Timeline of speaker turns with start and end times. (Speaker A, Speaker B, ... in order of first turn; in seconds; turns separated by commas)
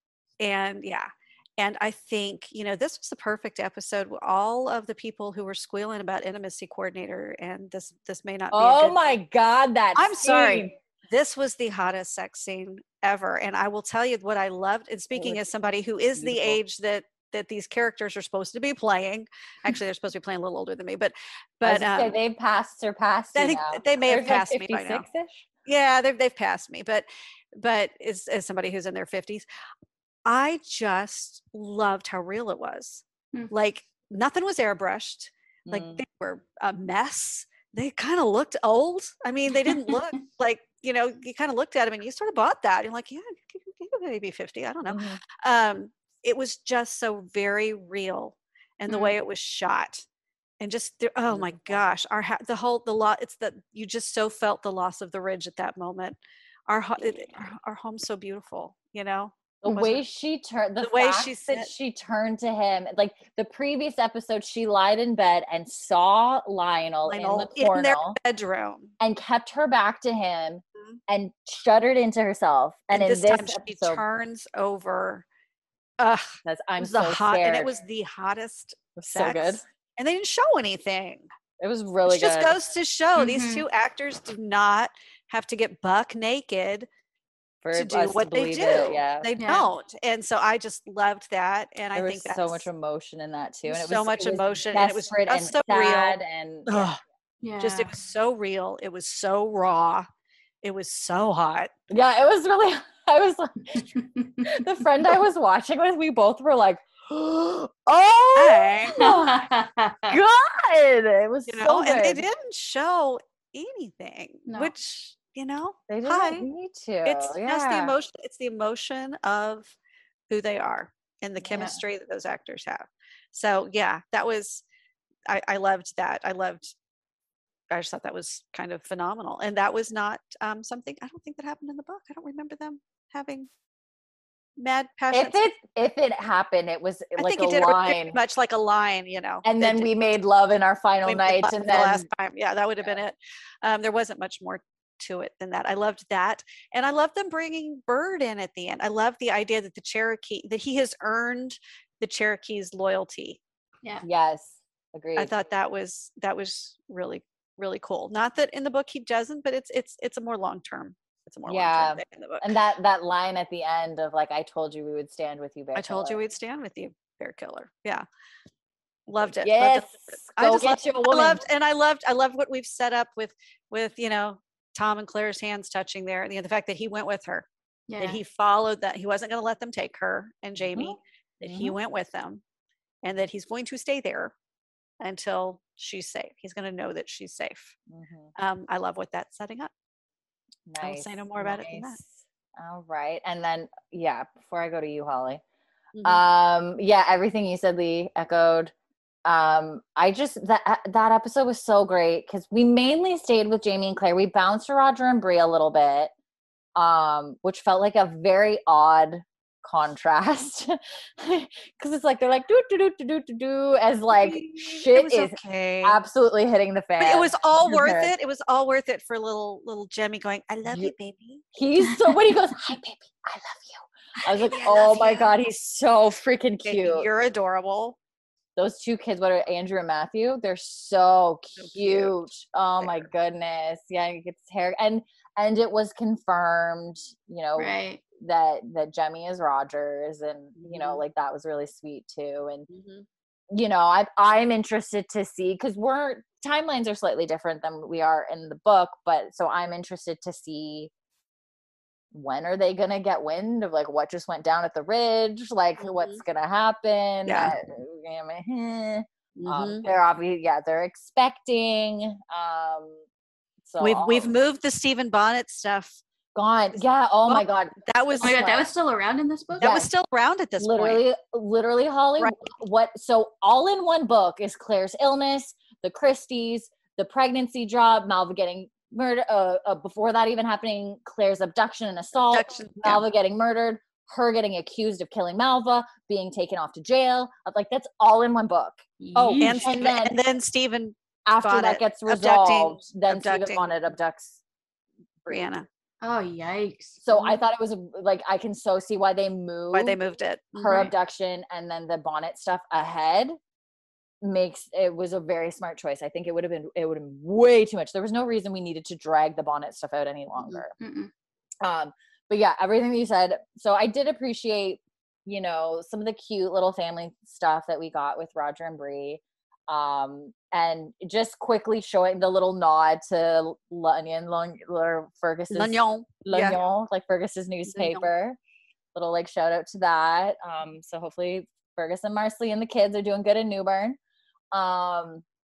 Speaker A: 0.4-9.0, Speaker B: 8.5-10.8, Speaker A: 9.9-22.2, Speaker B: 15.1-15.4, Speaker B: 16.1-16.6, Speaker B: 21.6-25.5, Speaker A: 23.4-25.1, Speaker A: 25.7-29.4, Speaker A: 30.2-50.1, Speaker B: 35.7-36.0, Speaker C: 39.6-39.9, Speaker B: 44.9-45.2, Speaker C: 48.9-49.2, Speaker A: 50.6-60.0, Speaker B: 51.3-51.9, Speaker B: 59.6-68.2, Speaker A: 60.8-61.7, Speaker A: 67.1-68.9, Speaker B: 69.0-74.0, Speaker A: 72.9-75.2, Speaker A: 76.0-81.3, Speaker B: 76.5-77.7, Speaker B: 79.0-79.6, Speaker B: 81.6-82.6, Speaker A: 82.1-86.9, Speaker C: 83.2-83.7, Speaker B: 87.6-89.3, Speaker A: 87.7-92.7, Speaker C: 89.4-89.7, Speaker B: 91.9-97.0, Speaker A: 93.7-97.0, Speaker C: 97.4-97.9, Speaker A: 97.6-100.0, Speaker A: 100.6-101.7, Speaker B: 101.9-103.9, Speaker C: 103.8-104.6, Speaker B: 104.4-109.4, Speaker A: 108.3-109.0, Speaker C: 108.9-110.2, Speaker B: 110.1-112.2, Speaker A: 111.5-116.5, Speaker C: 114.5-114.7, Speaker B: 115.9-117.9, Speaker A: 117.0-119.8, Speaker A: 120.3-124.6, Speaker B: 121.4-121.8, Speaker C: 121.5-121.8, Speaker A: 125.3-126.7, Speaker A: 127.7-133.5, Speaker A: 134.6-135.4, Speaker B: 135.1-138.2, Speaker A: 137.2-139.9, Speaker B: 139.4-142.1, Speaker A: 141.1-153.4, Speaker B: 154.0-155.3, Speaker A: 155.2-162.5, Speaker B: 161.5-166.2, Speaker A: 165.8-168.0, Speaker A: 169.1-177.5, Speaker B: 169.4-171.4, Speaker C: 177.9-178.2, Speaker A: 178.0-182.4, Speaker B: 180.6-181.8, Speaker A: 183.0-184.3, Speaker A: 185.0-187.8, Speaker B: 187.9-188.3, Speaker A: 188.4-189.7, Speaker B: 190.7-195.4, Speaker A: 190.8-192.0, Speaker A: 195.9-196.2, Speaker B: 196.0-198.7, Speaker B: 199.2-206.1, Speaker B: 206.8-218.1, Speaker A: 214.1-216.0, Speaker A: 217.0-221.4, Speaker B: 220.7-220.9, Speaker B: 221.5-227.1, Speaker A: 224.2-225.3, Speaker A: 226.7-228.0, Speaker B: 228.6-242.7, Speaker A: 231.6-232.2, Speaker A: 232.8-233.1, Speaker C: 237.6-238.0, Speaker A: 240.6-241.0, Speaker A: 242.7-243.1, Speaker B: 243.5-250.9, Speaker B: 252.1-263.0, Speaker A: 255.8-256.2, Speaker A: 257.3-257.5, Speaker A: 259.4-259.9, Speaker B: 263.6-264.3, Speaker A: 263.8-266.0, Speaker B: 266.4-268.7, Speaker A: 267.3-268.5, Speaker C: 268.2-269.8, Speaker B: 269.6-269.9, Speaker A: 269.6-271.0, Speaker B: 270.6-290.2, Speaker A: 282.3-283.0, Speaker C: 289.0-289.7, Speaker A: 289.4-293.6, Speaker B: 291.3-294.4, Speaker A: 295.3-295.7, Speaker C: 296.0-297.3, Speaker B: 297.0-300.0, Speaker A: 299.7-300.8, Speaker B: 300.6-303.4, Speaker C: 300.7-300.9, Speaker B: 304.2-310.7, Speaker C: 310.8-311.1, Speaker B: 311.6-328.4, Speaker A: 325.5-326.6, Speaker A: 327.7-328.1, Speaker B: 328.9-334.0, Speaker B: 334.5-335.2